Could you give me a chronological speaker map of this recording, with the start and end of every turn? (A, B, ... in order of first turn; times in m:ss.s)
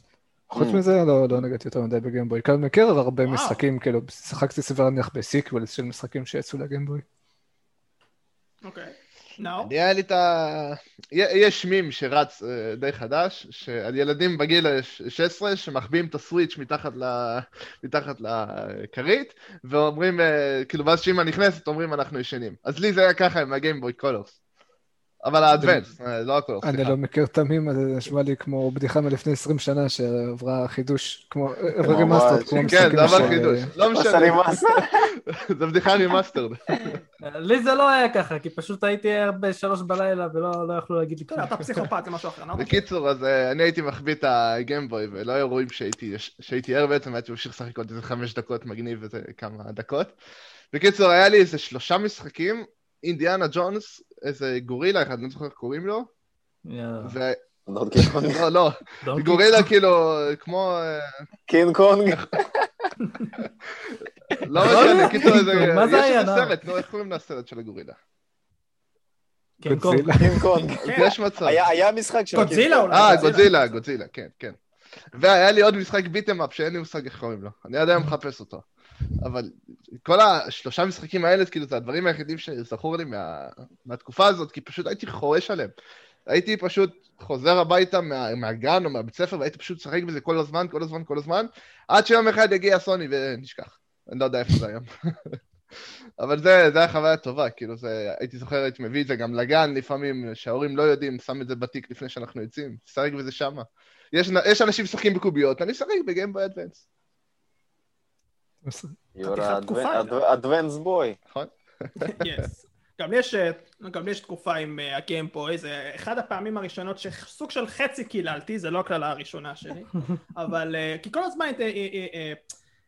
0:00.5-0:00.8 A
0:00.5-0:07.0 B
0:03.2-0:03.6 C
0:08.6-0:09.7 C
0:09.6-0:24.4 D
0:25.2-0:26.9 D
0:26.6-0:33.7 B
0:31.8-0:37.0 D
0:31.8-0:33.4 A
0:33.9-0:35.0 A
0:37.2-0:41.6 E
0:41.3-0:42.8 C
0:42.5-0:50.1 D
0:50.7-0:56.1 D
0:56.7-0:57.2 E
0:57.0-0:57.4 D
0:57.7-0:58.4 A
0:58.0-1:01.1 D
0:59.0-0:59.7 E
1:01.5-1:02.9 A
1:03.8-1:08.0 D
1:04.3-1:05.6 A
1:04.6-1:06.6 E
1:09.6-1:10.2 E
1:09.6-1:10.7 B
1:10.2-1:13.4 A
1:10.8-1:11.1 C
1:10.9-1:11.6 D
1:12.3-1:13.8 C
1:12.9-1:14.6 D
1:15.1-1:18.6 D
1:19.2-1:25.7 D
1:26.3-1:35.3 D
1:36.2-1:46.8 D
1:48.6-1:48.9 B
1:49.1-1:51.2 A
1:49.2-1:50.2 C
1:51.3-1:52.4 D
1:52.0-2:02.4 C